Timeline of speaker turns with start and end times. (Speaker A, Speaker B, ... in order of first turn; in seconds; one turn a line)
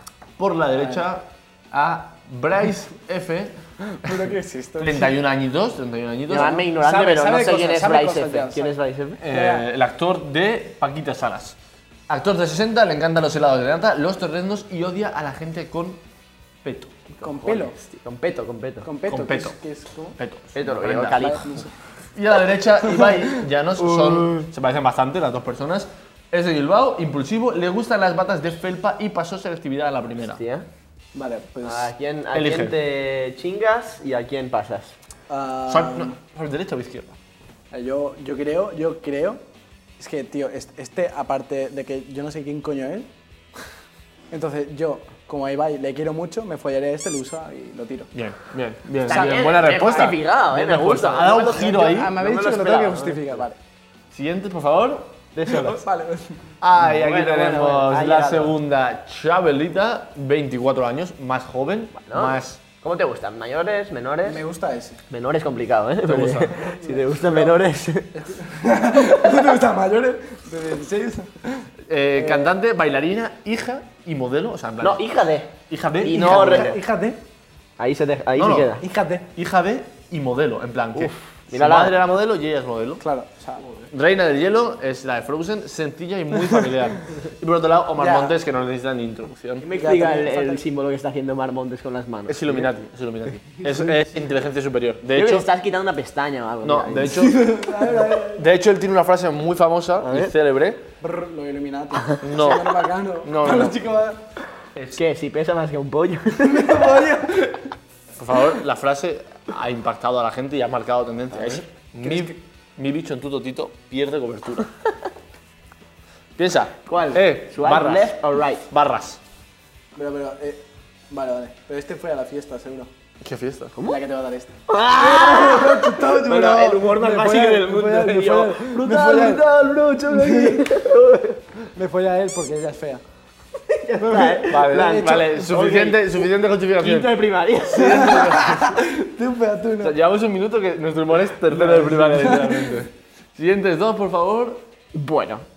Speaker A: 0.4-6.6
Speaker B: 3.9-5.1
Speaker C: 6.3-9.2
Speaker B: 6.7-9.7
Speaker A: 9.2-11.6
Speaker A: 12.1-16.0
Speaker A: 16.6-17.2
Speaker B: 17.2-17.8
Speaker C: 17.2-18.9
Speaker B: 18.8-20.1
Speaker A: 19.1-19.6
Speaker A: 20.2-21.3
Speaker C: 20.5-21.6
Speaker B: 21.2-21.7
Speaker A: 22.1-30.4
Speaker C: 30.2-30.7
Speaker B: 31.1-31.9
Speaker C: 31.6-34.9
Speaker A: 32.3-32.8
Speaker B: 35.3-36.1
Speaker A: 35.7-37.1
Speaker B: 37.7-39.4
Speaker B: 40.0-43.1
Speaker B: 44.3-48.1
Speaker A: 48.1-52.1
Speaker C: 49.0-53.4
Speaker B: 49.1-49.5
Speaker B: 51.3-53.6
Speaker A: 54.1-55.7
Speaker C: 55.3-55.8
Speaker B: 55.5-56.3
Speaker A: 56.6-62.6
Speaker C: 56.8-58.6
Speaker C: 62.0-64.4
Speaker B: 64.2-65.0
Speaker C: 65.1-68.3
Speaker A: 66.0-66.6
Speaker B: 66.6-67.6
Speaker B: 68.1-72.5
Speaker A: 71.9-75.1
Speaker C: 74.8-76.8
Speaker A: 75.7-76.8
Speaker B: 76.1-77.2
Speaker C: 77.8-78.8
Speaker A: 78.3-78.8
Speaker B: 78.8-79.2
Speaker A: 79.3-83.0
Speaker C: 80.9-82.0
Speaker B: 83.0-83.6
Speaker A: 83.9-89.7
Speaker B: 88.0-88.3
Speaker C: 89.6-92.7
Speaker B: 89.7-90.6
Speaker A: 92.3-95.5
Speaker C: 95.1-97.3
Speaker A: 96.6-100.8
Speaker B: 97.1-98.4
Speaker C: 100.0-100.3
Speaker B: 101.0-104.2
Speaker A: 102.2-103.8
Speaker C: 104.9-107.0
Speaker B: 106.4-107.6
Speaker A: 108.2-114.7
Speaker B: 112.0-112.3
Speaker A: 116.4-119.2
Speaker C: 116.8-118.6
Speaker B: 120.0-122.9
Speaker A: 123.2-123.7
Speaker C: 123.8-124.0
Speaker B: 123.8-129.4
Speaker C: 124.7-131.4
Speaker B: 130.1-130.8
Speaker B: 131.7-133.0
Speaker C: 133.6-138.5
Speaker B: 134.2-135.3
Speaker A: 134.5-137.2
Speaker A: 137.7-138.7
Speaker B: 137.7-139.9
Speaker A: 139.8-144.6
Speaker B: 141.5-142.8
Speaker C: 144.9-145.4